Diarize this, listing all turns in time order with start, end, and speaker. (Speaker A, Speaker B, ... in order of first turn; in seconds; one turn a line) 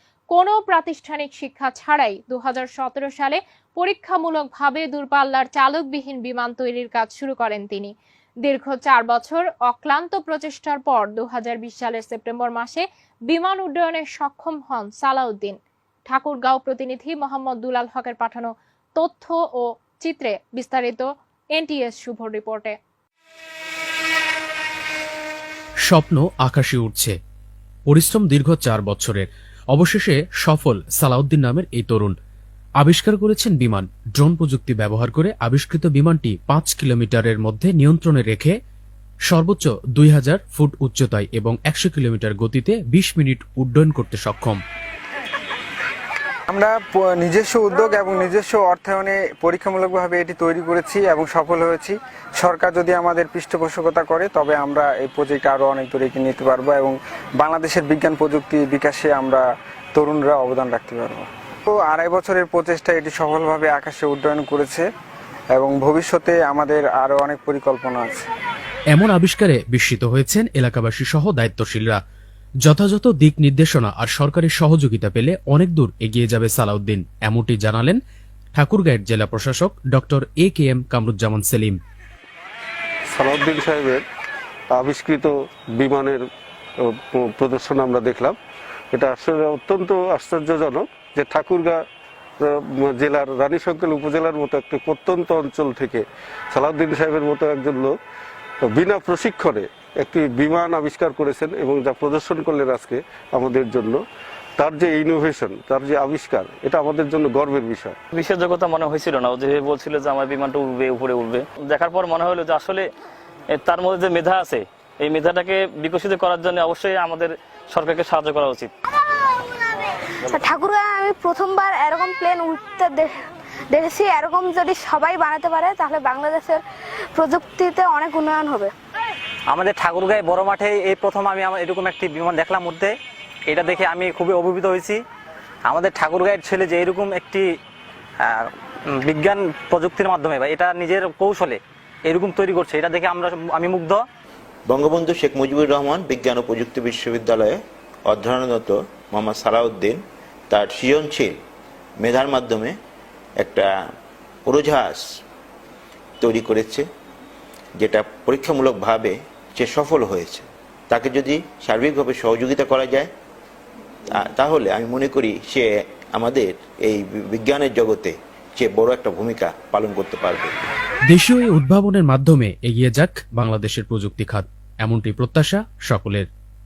Speaker A: 0.3-7.9
Speaker A: 8.4-15.6
Speaker A: 16.1-22.8
Speaker B: 25.9-27.1
Speaker B: 27.9-32.1
Speaker B: 32.8-38.5
Speaker B: 39.3-44.6
Speaker C: 46.5-59.4
Speaker C: 60.0-64.8
Speaker C: 65.5-68.2
Speaker B: 68.9-72.0
Speaker B: 72.7-78.0
Speaker B: 78.6-81.8
Speaker D: 83.1-84.0
Speaker D: 84.7-86.2
Speaker D: 86.8-88.4
Speaker D: 88.9-91.8
Speaker D: 92.4-98.0
Speaker D: 98.6-104.0
Speaker D: 104.6-108.0
Speaker E: 108.1-112.9
Speaker E: 113.5-118.7
Speaker F: 120.3-123.1
Speaker F: 123.7-126.6
Speaker F: 127.1-128.7
Speaker G: 129.5-132.9
Speaker G: 133.5-135.0
Speaker G: 135.7-137.4
Speaker G: 138.2-144.0
Speaker H: 144.7-151.4
Speaker H: 152.0-152.8
Speaker H: 153.4-153.7
Speaker H: 154.4-155.0
Speaker H: 156.2-156.8
Speaker H: 157.8-163.1
Speaker H: 164.1-170.5
Speaker B: 171.1-176.2